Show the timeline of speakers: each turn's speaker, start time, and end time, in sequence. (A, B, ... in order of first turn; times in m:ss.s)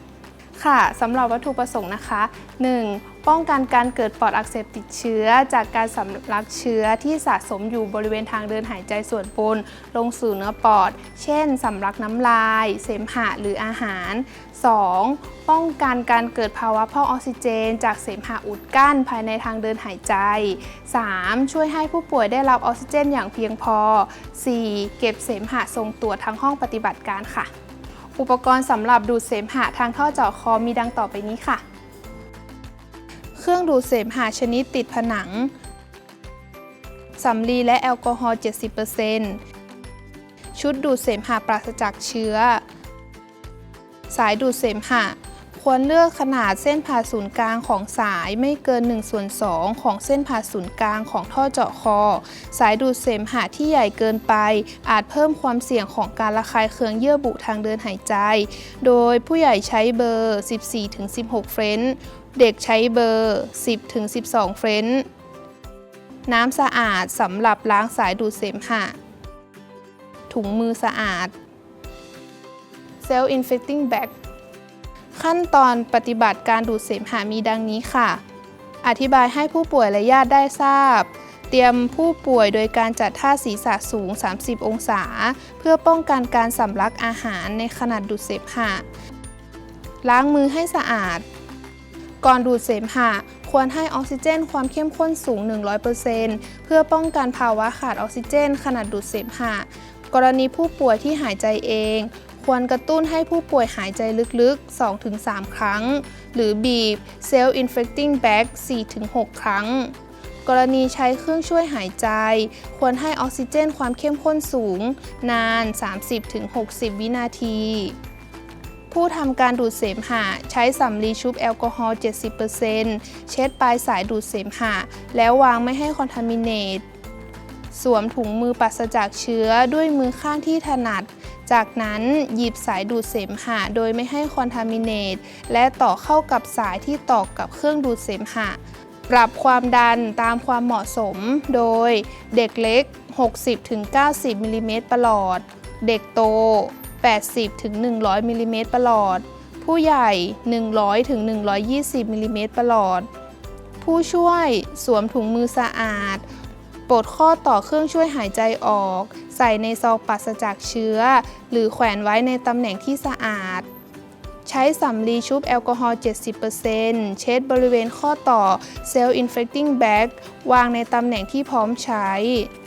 0:00.6-0:27.5 A
0:28.2-0:31.6 A
0:33.3-0:35.5 A
0:37.2-0:39.4 A
0:40.6-0:42.6 A
0:44.1-1:05.1 A
1:06.3-1:08.9 A
1:10.3-1:11.3 A
1:13.0-1:14.1 A
1:15.2-1:18.2 A
1:18.8-1:28.8 A
1:30.0-1:31.2 A
1:32.2-1:58.0 A
1:58.9-2:06.8 A
2:07.7-2:33.1 A
2:33.8-2:36.2 A
2:36.9-2:43.7 A
2:44.4-2:52.5 A